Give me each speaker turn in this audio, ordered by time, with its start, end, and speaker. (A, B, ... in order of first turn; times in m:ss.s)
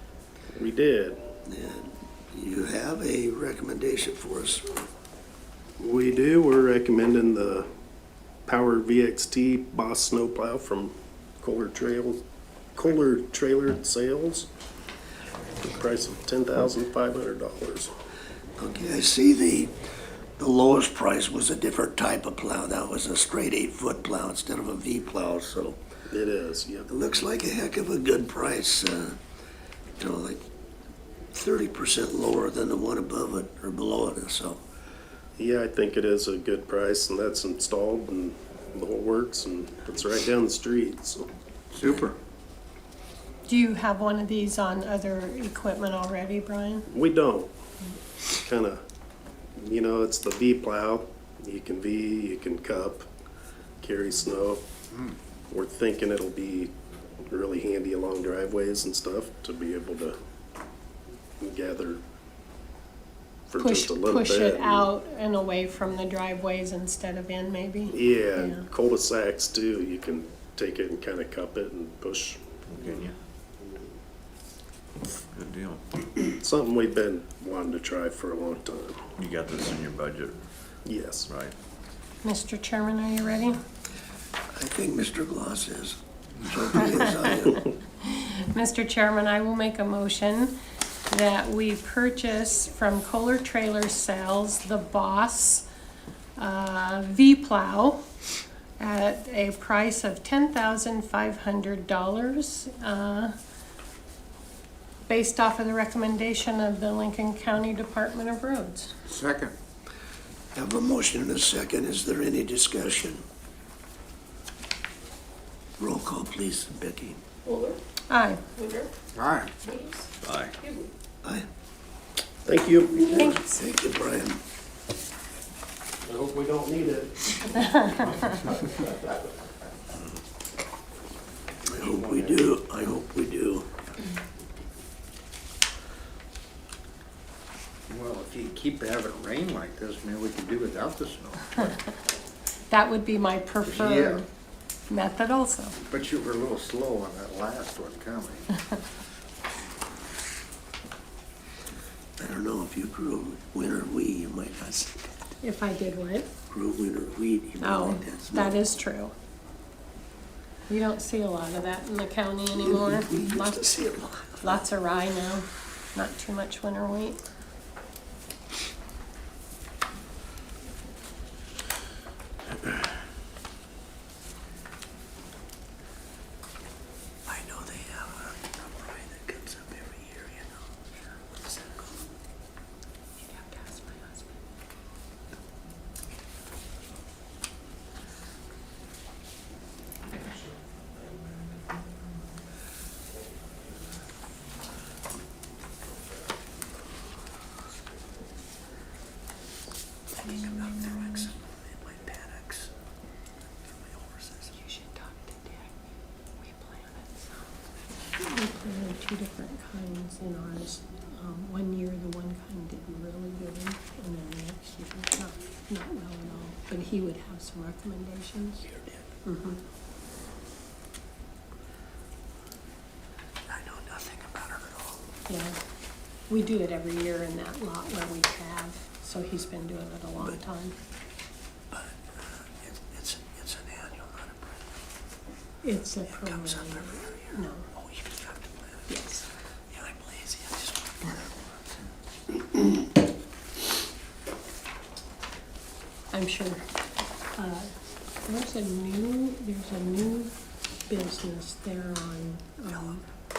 0:00.6-0:01.2 A
0:01.5-0:04.7 B
0:05.8-0:07.7 A
0:08.5-0:12.2 A
0:12.8-0:14.5 A
0:15.6-0:17.9 A
0:18.6-0:19.7 B
0:20.4-0:25.8 B
0:26.1-0:26.9 A
0:26.9-0:29.2 B
0:30.0-0:30.5 B
0:31.3-0:34.6 B
0:35.4-0:41.3 A
0:43.5-0:46.9 C
0:46.9-0:47.5 A
0:48.4-0:48.8 A
0:49.6-0:53.1 A
0:53.8-0:54.6 A
0:55.5-0:56.7 A
0:57.3-1:00.2 A
1:01.4-1:02.0 A
1:03.5-1:04.9 A
1:03.6-1:08.6 C
1:07.9-1:12.4 A
1:15.3-1:15.8 D
1:16.3-1:19.0 A
1:19.2-1:20.4 D
1:20.9-1:21.3 A
1:21.3-1:21.5 D
1:22.2-1:23.6 C
1:24.5-1:27.6 B
1:28.0-1:30.6 C
1:31.1-1:35.7 C
1:36.4-1:38.0 C
1:38.8-1:43.3 C
1:45.1-1:48.9 C
1:49.1-1:49.5 E
1:50.5-1:53.2 B
1:55.8-1:57.2 B
1:57.4-1:57.8 F
1:58.1-1:58.4 C
1:58.6-1:58.9 F
1:59.2-1:59.5 E
1:59.6-2:00.9 F
2:00.2-2:00.5 D
2:02.4-2:03.4 A
2:03.1-2:04.4 B
2:06.0-2:09.3 A
2:11.7-2:13.7 B
2:17.9-2:21.8 E
2:22.7-2:24.3 C
2:23.8-2:24.2 E
2:24.9-2:25.8 C
2:25.9-2:28.5 E
2:32.2-2:35.0 B
2:35.4-2:36.3 C
2:36.5-2:38.6 B
2:37.6-2:39.1 C
2:40.7-2:47.2 C
2:42.6-2:44.6 B
2:57.3-3:00.5 B
3:01.4-3:01.8 B
3:03.2-3:04.3 C
3:20.2-3:22.7 B
3:23.7-3:24.5 B
3:24.6-3:25.7 C
3:26.4-3:27.3 C
3:28.1-3:38.6 C
3:38.7-3:39.1 B
3:39.2-3:39.6 C
3:43.5-3:45.0 B
3:45.3-3:45.6 C
3:46.3-3:50.8 C
3:51.7-3:54.6 B
3:55.6-3:57.7 C
3:56.1-3:58.9 B
3:58.9-3:59.3 C
3:59.7-4:01.6 B
4:06.1-4:06.6 C
4:07.4-4:07.7 C
4:08.2-4:10.3 C
4:10.9-4:13.0 C